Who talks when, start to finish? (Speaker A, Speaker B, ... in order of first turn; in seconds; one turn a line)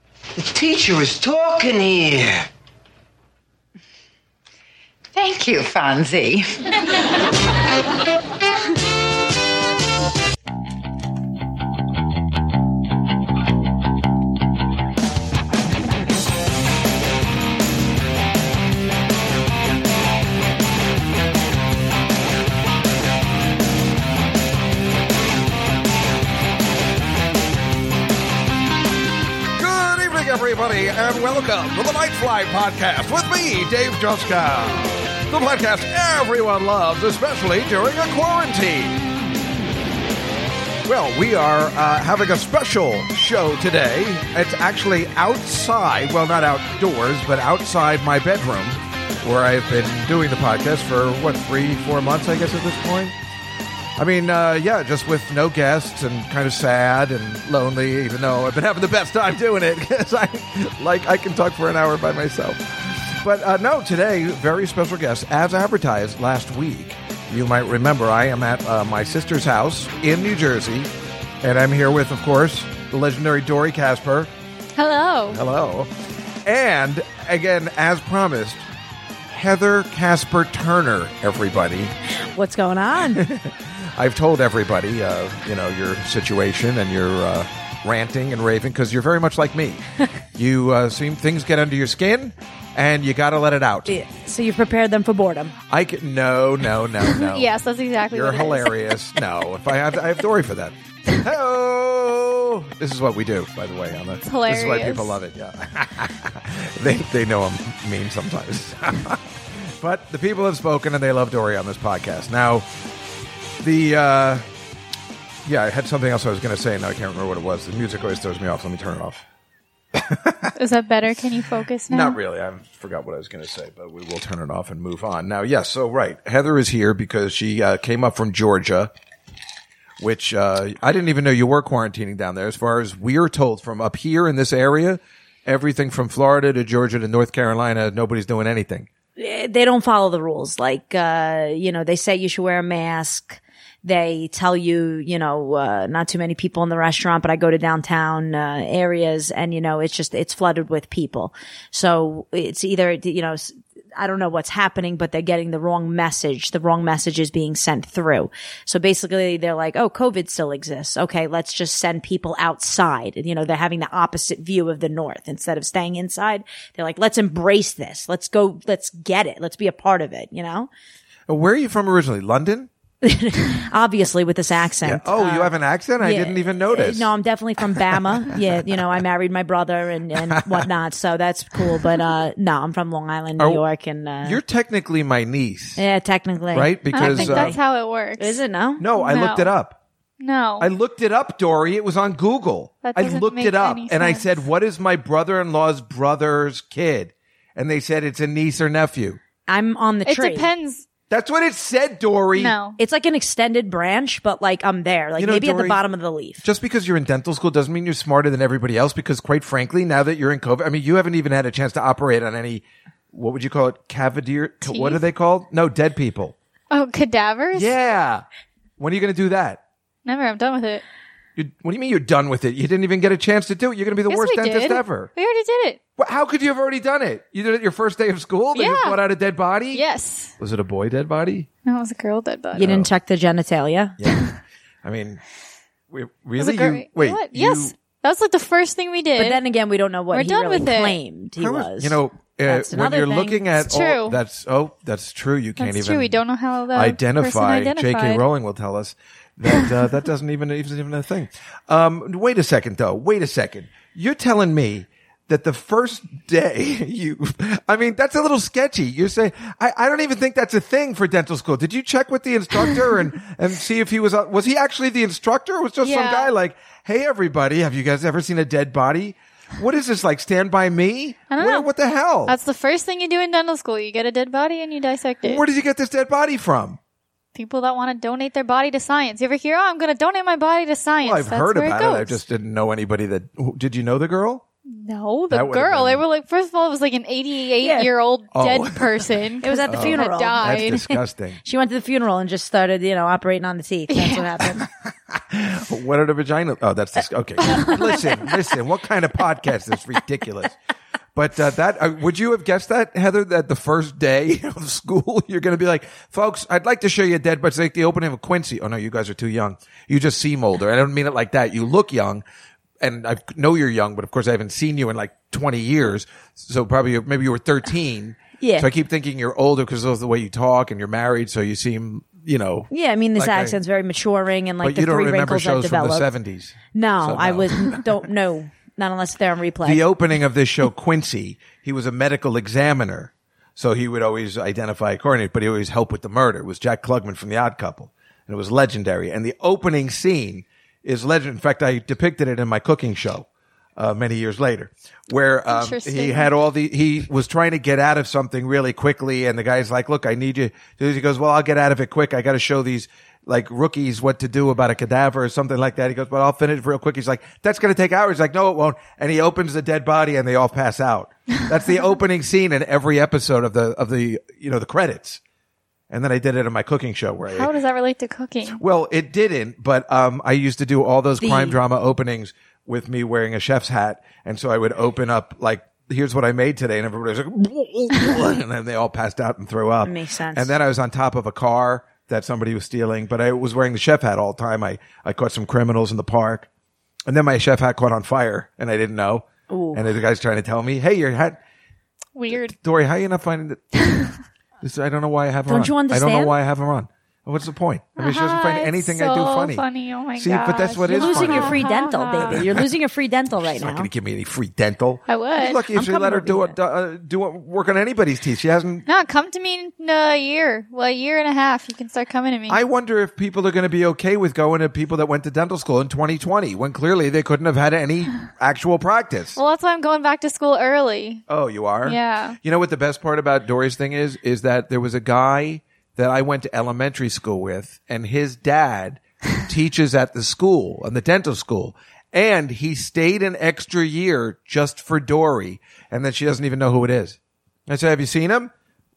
Speaker A: 0.4-2.5
Speaker B: 5.1-7.0
Speaker C: 29.6-39.0
Speaker C: 40.8-53.1
Speaker C: 54.0-70.9
Speaker C: 71.4-74.3
Speaker D: 74.8-75.4
Speaker C: 75.3-75.9
Speaker C: 76.4-78.6
Speaker C: 79.3-81.9
Speaker E: 82.3-83.2
Speaker C: 83.1-89.8
Speaker C: 90.3-94.0
Speaker E: 93.9-95.5
Speaker C: 95.7-112.7
Speaker D: 97.0-98.9
Speaker D: 104.2-105.2
Speaker C: 113.6-114.4
Speaker C: 115.4-119.2
Speaker C: 119.9-120.5
Speaker D: 120.5-122.2
Speaker C: 121.9-128.9
Speaker C: 130.0-138.9
Speaker E: 139.2-170.7
Speaker C: 171.3-172.7
Speaker E: 173.0-184.4
Speaker C: 174.8-177.1
Speaker C: 180.3-180.7
Speaker C: 183.4-183.6
Speaker C: 184.2-185.8
Speaker E: 185.8-187.6
Speaker C: 186.5-187.6
Speaker D: 186.9-188.4
Speaker E: 188.2-188.8
Speaker C: 188.8-189.8
Speaker D: 188.9-189.5
Speaker D: 190.2-190.7
Speaker C: 190.6-199.2
Speaker D: 192.8-194.4
Speaker E: 199.5-200.5
Speaker D: 200.1-200.8
Speaker C: 201.1-202.5
Speaker D: 202.4-202.8
Speaker E: 202.8-206.4
Speaker C: 205.2-205.8
Speaker C: 206.4-216.3
Speaker D: 214.6-215.0
Speaker D: 216.7-217.7
Speaker C: 217.5-218.2
Speaker C: 218.8-219.6
Speaker D: 220.0-220.8
Speaker C: 221.3-225.1
Speaker D: 224.1-225.8
Speaker C: 226.0-229.8
Speaker D: 228.5-229.0
Speaker D: 229.7-230.3
Speaker C: 230.4-231.5
Speaker D: 231.6-232.7
Speaker C: 232.6-232.9
Speaker E: 232.6-233.9
Speaker C: 234.0-234.3
Speaker C: 234.8-235.2
Speaker C: 235.9-237.7
Speaker D: 236.4-239.4
Speaker E: 239.2-243.5
Speaker D: 240.1-241.0
Speaker C: 241.4-246.2
Speaker D: 243.6-244.2
Speaker D: 245.6-248.2
Speaker C: 246.7-272.4
Speaker D: 265.8-266.3
Speaker D: 271.3-271.7
Speaker D: 272.2-275.4
Speaker C: 275.2-276.8
Speaker D: 277.3-282.2
Speaker C: 281.0-284.4
Speaker D: 284.7-291.0
Speaker C: 285.3-286.0
Speaker E: 287.6-287.9
Speaker C: 288.3-289.0
Speaker E: 289.4-290.7
Speaker C: 289.6-291.4
Speaker E: 291.4-294.7
Speaker D: 293.9-294.3
Speaker C: 295.1-300.6
Speaker D: 297.5-298.0
Speaker C: 301.1-312.2
Speaker C: 312.8-323.6
Speaker E: 318.4-318.7
Speaker E: 322.7-326.1
Speaker C: 324.6-327.9
Speaker E: 326.7-329.8
Speaker C: 329.6-365.2
Speaker D: 345.5-346.3
Speaker C: 365.9-367.5
Speaker D: 367.2-368.6
Speaker C: 368.5-386.5
Speaker E: 371.2-371.6
Speaker E: 379.8-380.5
Speaker C: 387.1-391.4
Speaker E: 389.5-389.8
Speaker D: 392.1-392.5
Speaker C: 392.3-393.8
Speaker D: 393.8-394.1
Speaker C: 394.6-399.6
Speaker E: 395.5-396.3
Speaker D: 398.0-402.4
Speaker C: 400.2-401.6
Speaker E: 400.9-403.9
Speaker C: 402.2-402.6
Speaker C: 403.4-408.8
Speaker D: 405.1-405.6
Speaker E: 405.7-406.5
Speaker D: 408.9-412.6
Speaker C: 412.5-419.4
Speaker D: 419.4-421.2
Speaker C: 421.3-438.5
Speaker D: 421.8-422.4